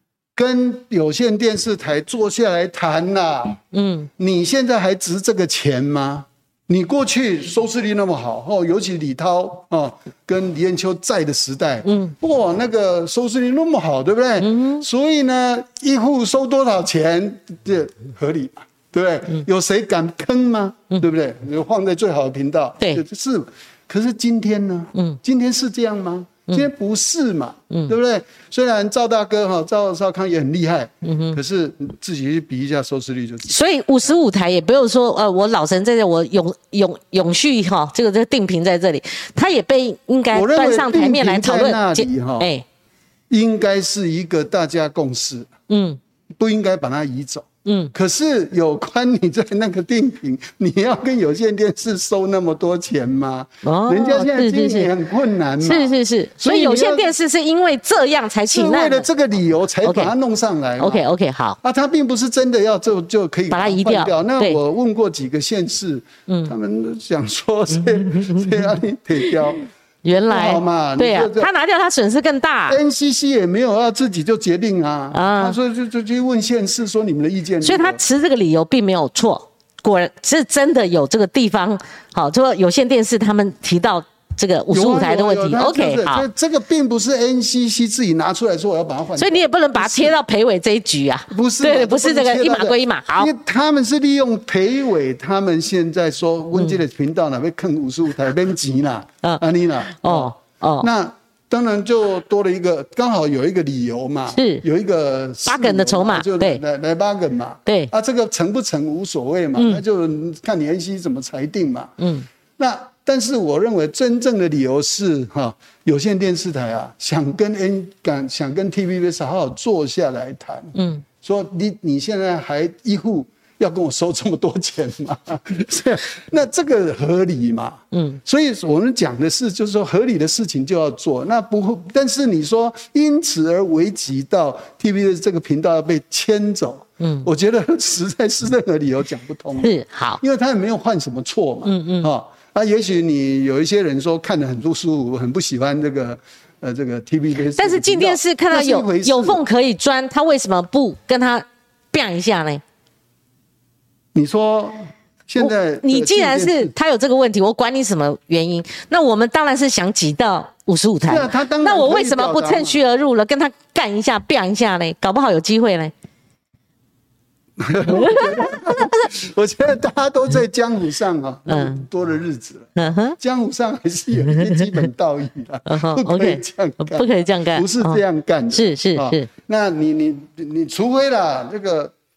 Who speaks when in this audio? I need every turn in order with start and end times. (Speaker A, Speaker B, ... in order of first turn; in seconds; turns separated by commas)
Speaker A: 0.3-3.6, Speaker B: 3.7-4.1, Speaker A: 4.2-33.6, Speaker B: 11.8-12.1, Speaker B: 14.4-14.8, Speaker B: 31.0-31.4, Speaker B: 33.5-42.6, Speaker A: 40.3-42.5, Speaker A: 43.3-45.5, Speaker B: 45.7-46.0, Speaker A: 46.4-57.1, Speaker B: 47.6-47.9, Speaker B: 53.6-54.9, Speaker B: 55.6-59.1, Speaker A: 58.5-61.0, Speaker B: 59.8-60.1, Speaker B: 60.8-61.6, Speaker A: 61.6-69.6, Speaker B: 63.5-64.6, Speaker B: 66.3-66.5, Speaker B: 67.9-68.6, Speaker B: 70.0-72.8, Speaker A: 70.3-71.5, Speaker A: 72.7-78.0, Speaker B: 75.1-75.6, Speaker B: 77.6-86.2, Speaker A: 84.7-90.2, Speaker B: 89.2-93.3, Speaker A: 91.3-112.0, Speaker B: 99.2-100.9, Speaker B: 104.3-104.6, Speaker B: 105.5-106.6, Speaker B: 107.7-107.9, Speaker B: 109.5-109.8, Speaker B: 112.0-112.3, Speaker A: 112.6-149.4, Speaker B: 120.7-121.0, Speaker B: 127.9-128.2, Speaker B: 137.0-137.3, Speaker B: 139.6-140.2, Speaker B: 141.6-142.1, Speaker B: 147.6-152.6, Speaker A: 154.1-156.7, Speaker B: 155.4-165.9, Speaker A: 161.0-162.8, Speaker A: 167.6-181.9, Speaker B: 167.9-169.0, Speaker B: 171.5-171.8, Speaker B: 172.8-173.2, Speaker B: 174.3-174.8, Speaker B: 175.7-178.0, Speaker B: 178.5-179.3